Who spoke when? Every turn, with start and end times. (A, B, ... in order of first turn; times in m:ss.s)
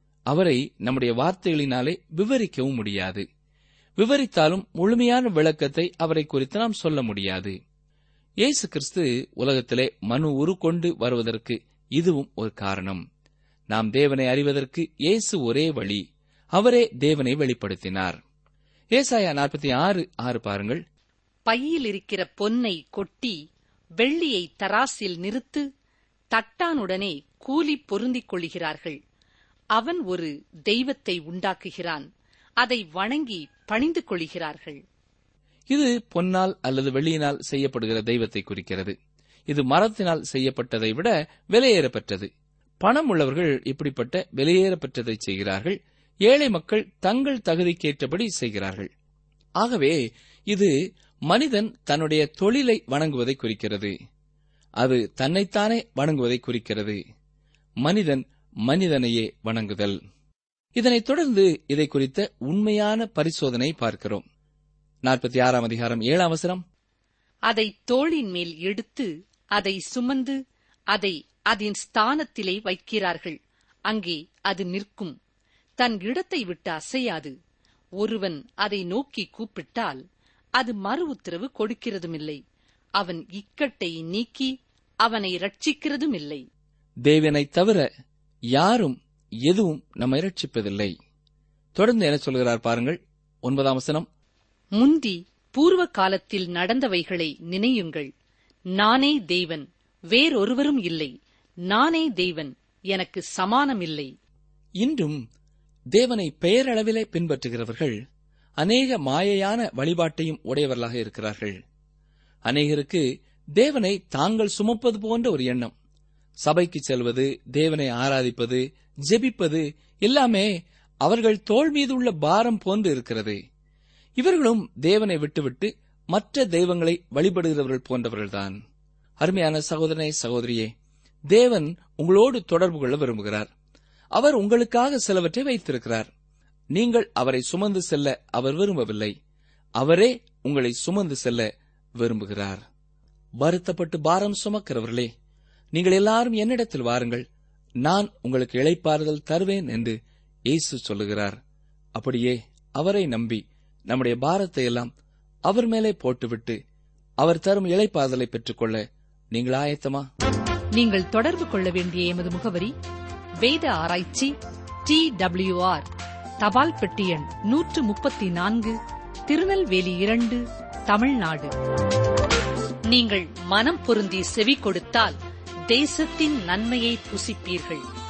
0:00.3-0:03.2 A
0:04.0-0:07.5 A
0:08.4-0:13.0 A
0:13.7-0:16.0 A
0:16.5-0:18.2 A
0:18.9-0:20.8 A
0:21.5-0:23.4 B
0:24.0-0:25.6 B
0:26.3-0:29.0 B
0:29.7-0:32.1 B
0:32.6-0:34.8 B
0:35.7-0:38.9 A
0:39.5-0:42.3 A
0:42.8-0:48.9 A
0:49.6-0:50.7 A
0:51.3-0:53.9 A
0:54.8-0:57.0 A
0:57.8-1:00.0 A
1:00.8-1:04.2 A
1:05.0-1:06.6 A
1:07.5-1:10.4 B
1:10.9-1:13.4 B
1:13.9-1:15.1 B
1:15.8-1:17.3 B
1:18.0-1:20.0 B
1:20.6-1:22.4 B
1:23.0-1:24.5 B
1:25.0-1:26.4 B
1:27.0-1:27.8 A
1:28.5-1:30.9 A
1:31.8-1:34.1 A
1:34.8-1:38.1 B
1:38.8-1:41.1 B
1:41.7-1:44.1 B
1:44.8-1:45.2 A
1:45.9-1:47.9 A
1:48.6-1:51.6 A
1:52.5-1:53.0 A
1:53.6-1:55.7 A
1:56.4-2:00.5 A
2:01.0-2:03.4 A
2:04.2-2:08.6 A
2:09.2-2:10.7 A
2:11.3-2:13.5 A
2:14.2-2:16.1 A
2:16.7-2:19.1 A
2:19.8-2:22.6 A
2:23.4-2:25.1 A
2:25.7-2:27.2 A
2:27.8-2:30.0 A
2:30.5-2:31.4 A
2:32.0-2:34.9 A
2:35.5-2:36.6 A
2:37.2-2:38.8 A
2:39.3-2:40.1 A
2:40.7-2:42.7 B
2:43.4-2:44.3 B
2:44.8-2:45.8 B
2:46.4-2:48.8 B
2:49.3-2:51.5 B
2:52.9-2:55.2 B
2:55.7-2:57.8 B